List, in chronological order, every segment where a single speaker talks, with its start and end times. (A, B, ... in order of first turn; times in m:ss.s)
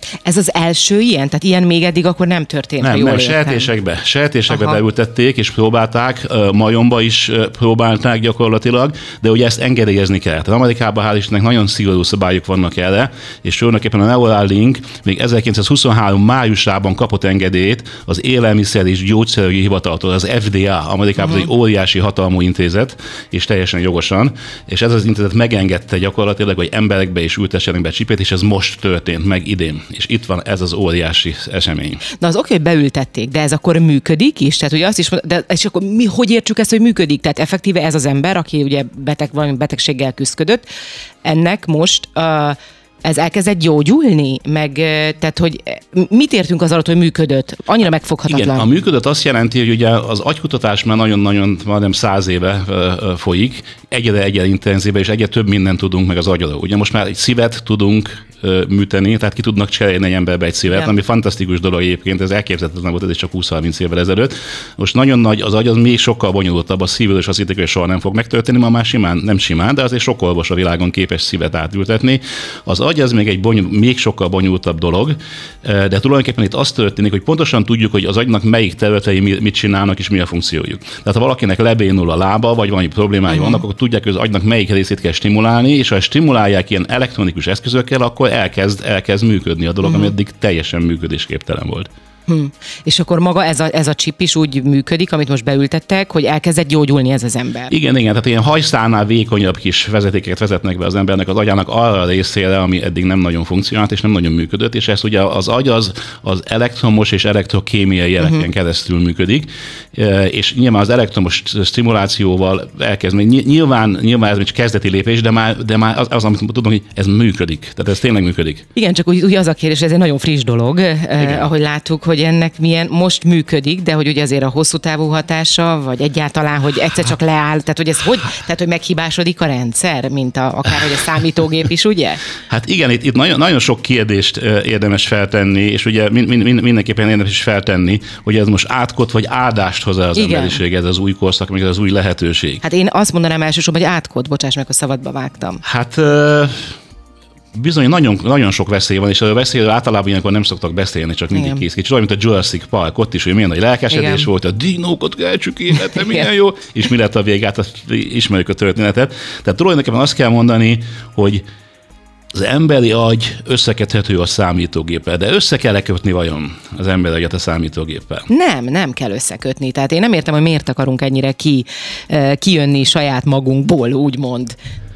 0:00.2-0:03.7 A
0:02.8-0:32.0 B
0:04.5-0:04.8 A
0:32.2-0:40.6 A
0:41.2-0:48.7 A
0:48.3-1:31.9 B
1:23.3-1:23.6 A
1:29.8-1:30.1 A
1:32.3-1:37.7 A
1:37.7-1:58.7 B
1:58.7-2:12.2 A
2:01.2-2:01.5 B
2:12.5-2:22.6 B
2:20.1-2:20.6 A
2:22.6-2:25.6 A
2:25.6-2:26.7 B
2:27.5-2:41.4 B
2:31.3-2:31.6 A
2:33.9-2:34.3 A
2:42.3-2:48.3 B
2:48.3-2:54.6 A